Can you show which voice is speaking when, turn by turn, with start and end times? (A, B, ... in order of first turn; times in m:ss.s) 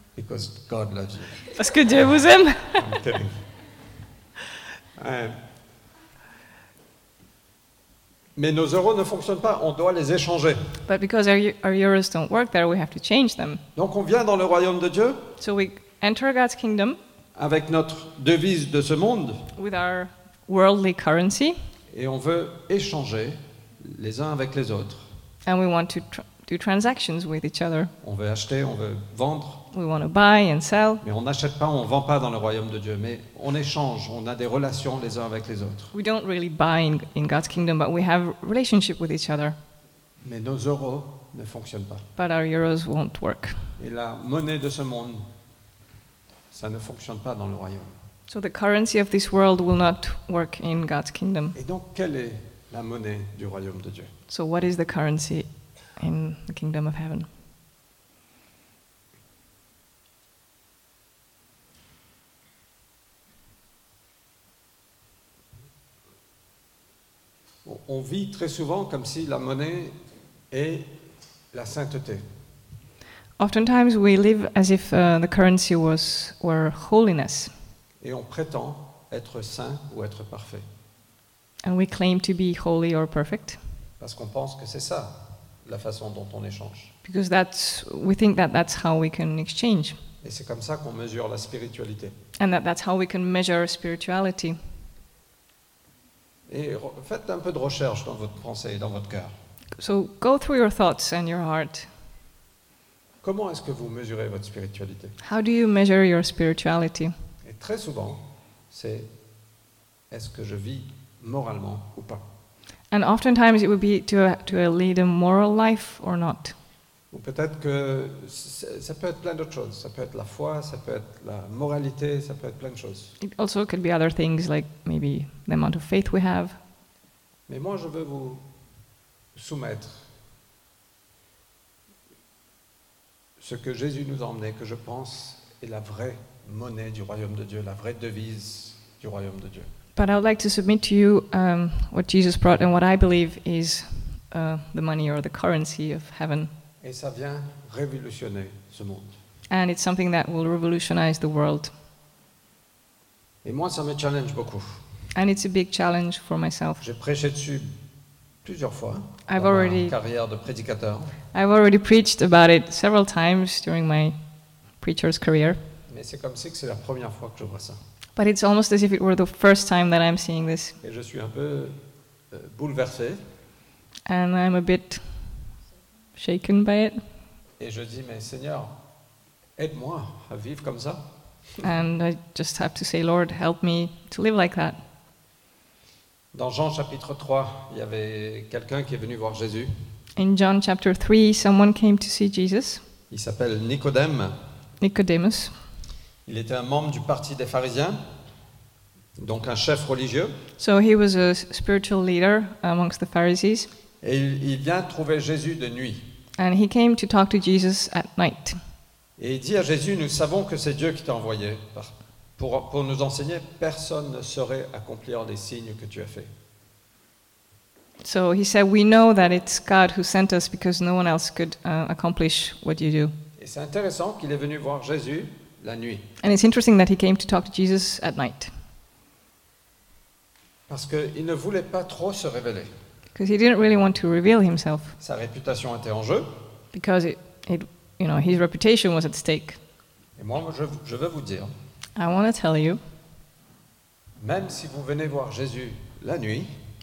0:00.2-0:01.6 A
0:01.5-0:02.9 B
0:02.7-0:03.4 A
0:04.9-0:05.4 A
0:08.4-0:10.7 A
0:10.8-0:13.6 B
0:13.7-0:15.3 A
0:15.4-0:17.0 B
0:17.3-0:19.5 A
0:19.5-0:21.6 B
0:21.9-0:25.1 A
0:25.4-0:27.9 B
0:28.0-0:29.6 A
0:29.7-0:31.0 B
0:31.0-0:35.9 A
0:35.9-0:39.6 B
0:40.2-0:42.0 A
0:42.2-0:43.6 B
0:43.8-0:45.3 A
0:46.5-0:48.0 A
0:48.3-0:51.6 B
0:51.5-0:54.1 A
0:54.3-0:57.3 B
1:07.6-1:09.9 A
1:10.5-1:10.9 A
1:11.5-1:12.2 A
1:13.4-1:17.5 B
1:18.0-1:20.6 A
1:21.6-1:23.6 B
1:24.0-1:26.9 A
1:27.0-1:30.0 B
1:30.2-1:32.1 A
1:32.4-1:34.6 B
1:36.5-1:39.3 A
1:39.8-1:41.9 B
1:43.2-1:45.2 A
1:45.2-1:47.1 B
1:47.4-1:49.1 A
1:50.1-1:52.2 A
1:52.9-1:56.5 B
1:57.1-2:03.2 A
2:03.2-2:06.6 B
2:07.5-2:08.4 A
2:09.3-2:10.1 A
2:13.4-2:19.7 A
2:20.0-2:26.5 B
2:26.8-2:29.2 A
2:29.5-2:31.7 B
2:33.4-2:34.8 A
2:35.1-2:36.8 B
2:36.8-2:37.7 A
2:38.4-2:41.2 A
2:39.3-2:39.9 B
2:41.3-2:44.2 B
2:44.8-2:45.6 B
2:45.8-2:47.8 A
2:48.2-2:50.8 B
2:50.8-2:51.8 A
2:52.3-2:53.2 A
2:54.0-2:55.0 B
2:56.2-2:57.0 B
2:57.6-2:58.7 A
2:59.6-3:01.1 A
3:01.6-3:04.8 B
3:06.3-3:09.7 A
3:10.2-3:12.8 B
3:13.1-3:14.4 A
3:14.8-3:15.5 B
3:16.2-3:18.0 A
3:19.2-3:20.4 A
3:20.6-3:23.7 B
3:24.0-3:26.0 A
3:26.4-3:28.6 B
3:29.2-3:36.3 A
3:38.0-3:43.1 B
3:43.4-3:46.1 A
3:46.2-3:48.5 B
3:50.7-3:52.7 A
3:53.1-3:55.0 B
3:55.0-3:56.3 A
3:56.7-3:59.6 B
4:00.2-4:01.5 A
4:02.0-4:02.8 B
4:04.2-4:06.5 A